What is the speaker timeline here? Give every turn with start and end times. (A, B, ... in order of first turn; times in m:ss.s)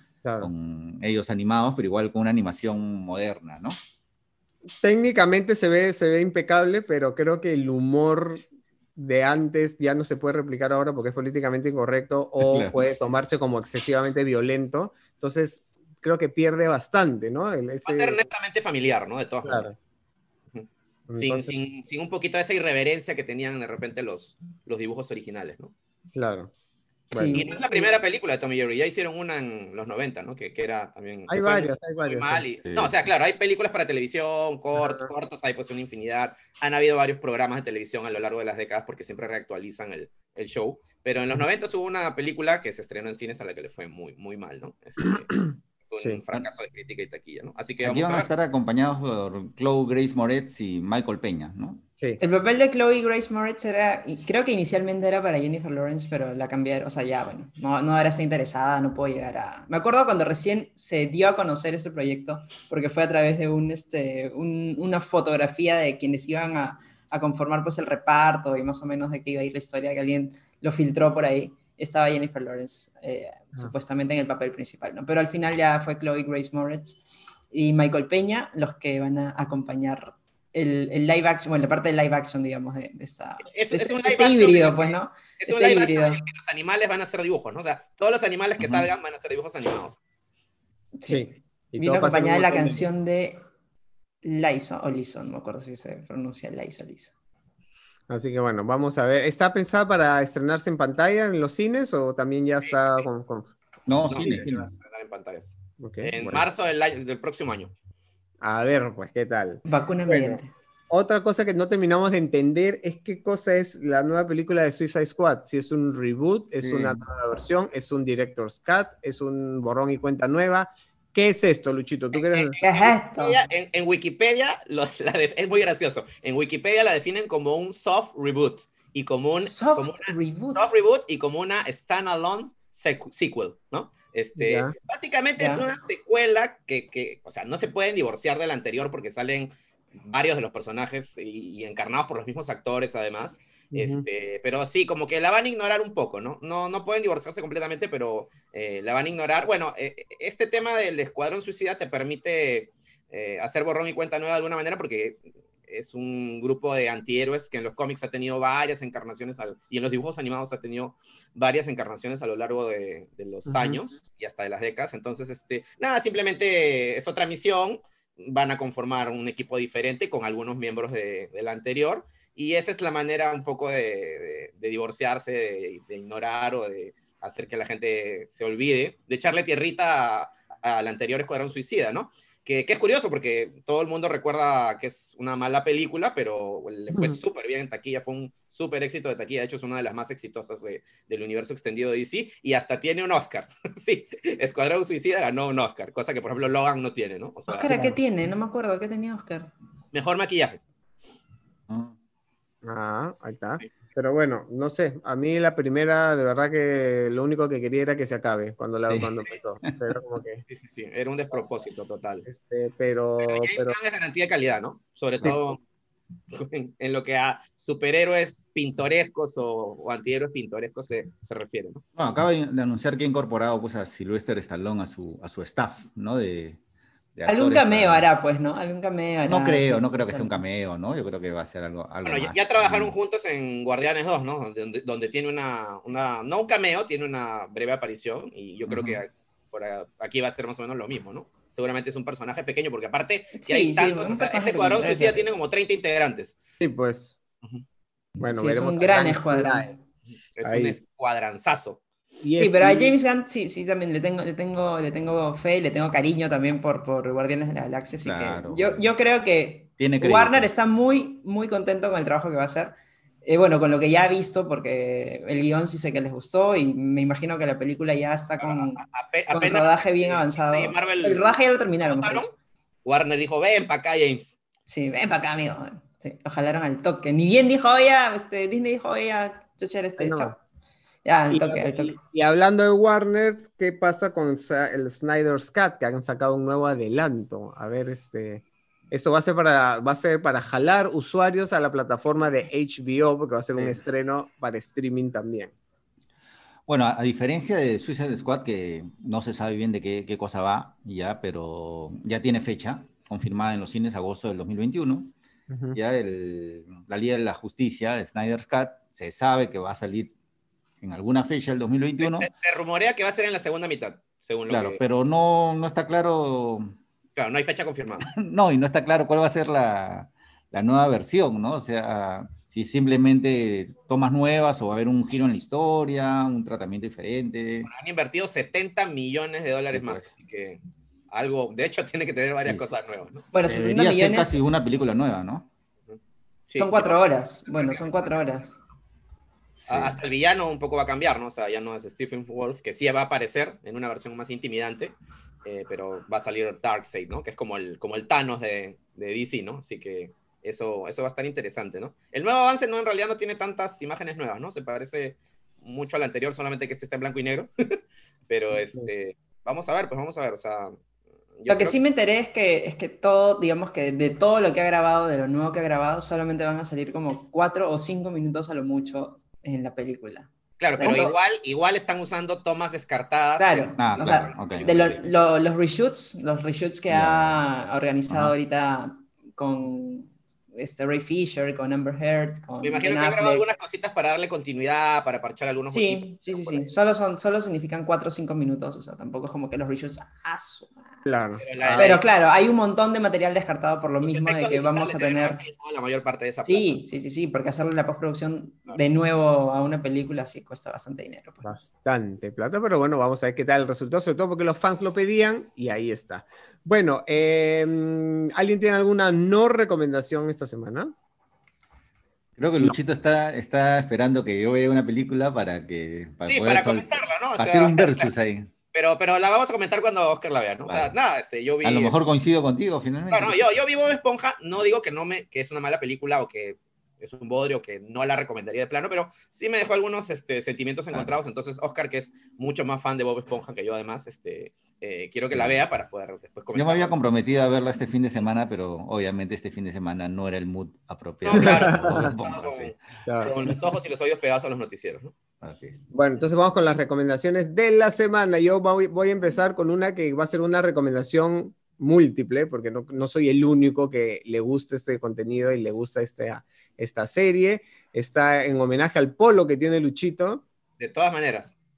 0:00.2-0:00.5 A
0:00.4-0:03.8 B
0:04.8-0:08.4 A
0:09.0-0:18.2 A
0:12.4-0:12.8 B
0:17.8-0:19.7 C
0:19.4-0:19.8 A
0:20.5-0:25.7 C
0:21.1-0:21.5 A
0:26.2-0:26.5 A
0:27.1-0:27.8 A
0:27.1-0:27.8 D
0:27.3-0:48.3 C
0:31.3-0:32.4 A
0:32.7-0:33.1 B
0:34.8-0:35.1 A
0:45.2-0:46.2 A
0:47.8-0:51.8 B
0:52.2-1:17.0 D
1:17.5-1:26.2 D
1:23.5-1:30.0 C
1:28.6-1:28.9 B
1:31.0-1:31.2 D
1:31.1-1:32.9 A
1:31.8-1:33.4 D
1:34.2-1:37.1 D
1:38.1-1:43.5 A
1:42.6-1:43.1 C
1:43.9-1:44.7 B
1:44.1-1:47.7 C
1:44.2-1:44.7 A
1:45.8-1:46.5 A
1:48.4-2:02.6 A
1:49.7-1:50.5 D
1:56.6-1:57.0 B
2:02.1-2:19.5 C
2:02.6-2:03.4 D
2:09.4-2:10.6 D
2:14.4-2:14.7 A
2:15.4-2:15.7 D
2:20.0-3:17.7 C
2:23.7-2:24.0 A
2:43.5-2:43.9 A
3:06.9-3:07.2 A
3:17.5-3:19.5 D
3:17.7-3:18.0 A
3:19.9-3:20.6 C
3:21.7-3:21.9 B
3:22.6-3:30.4 A
3:28.9-3:29.1 B
3:30.5-3:32.3 C
3:32.3-3:33.8 A
3:33.2-3:35.6 C
3:36.3-3:41.8 C
3:42.0-3:46.6 B
3:47.2-3:48.1 B
3:47.3-3:50.4 D
3:49.3-3:52.9 B
3:52.0-4:06.4 C
3:58.7-3:59.0 B
4:03.4-4:05.2 D
4:06.6-4:07.2 A
4:08.2-4:09.8 D
4:08.2-4:09.7 A
4:10.4-4:11.8 C
4:10.4-4:10.8 A
4:12.2-4:13.0 A
4:12.4-4:32.3 D
4:18.0-4:18.9 B
4:19.8-4:20.5 B
4:28.4-4:32.3 C
4:32.8-4:34.4 C
4:34.7-4:40.4 D
4:40.0-4:40.4 A
4:41.0-4:42.0 D
4:41.3-4:55.5 A
4:56.7-5:05.1 B
5:05.5-5:05.8 A
5:05.7-5:10.1 B
5:10.8-5:12.3 B
5:12.0-5:14.8 C
5:14.5-5:16.8 B
5:17.2-5:18.1 C
5:18.1-5:27.7 B
5:27.7-5:30.6 C
5:29.7-5:30.1 B
5:31.1-5:33.3 C
5:32.4-5:32.8 B
5:33.3-5:34.4 D
5:33.4-5:35.5 B
5:36.5-5:37.0 C
5:36.6-5:38.6 D
5:37.5-5:38.1 C
5:39.6-5:40.0 B
5:39.7-5:57.8 C
5:58.3-6:00.8 C
5:58.5-5:58.9 A
6:01.4-6:01.8 C
6:01.5-6:11.2 D
6:10.6-6:14.4 C
6:13.4-6:23.5 D
6:13.8-6:15.1 B
6:16.9-6:17.4 B
6:22.6-6:26.7 C
6:25.7-6:30.7 D
6:31.0-6:32.0 A
6:31.4-6:32.0 C
6:31.8-6:35.4 D
6:34.0-6:36.8 C
6:36.4-6:41.5 D
6:41.4-6:50.9 A
6:52.4-6:58.5 B
6:56.3-6:58.1 C
6:58.7-7:02.0 C
7:00.7-7:00.9 B
7:01.6-7:03.4 B
7:03.1-7:17.0 C
7:15.3-7:15.6 B
7:16.5-7:22.8 B
7:21.2-7:25.1 C
7:21.3-7:22.1 A
7:23.1-7:23.5 A
7:25.4-7:25.8 B
7:25.9-7:40.4 A
7:40.8-7:41.6 C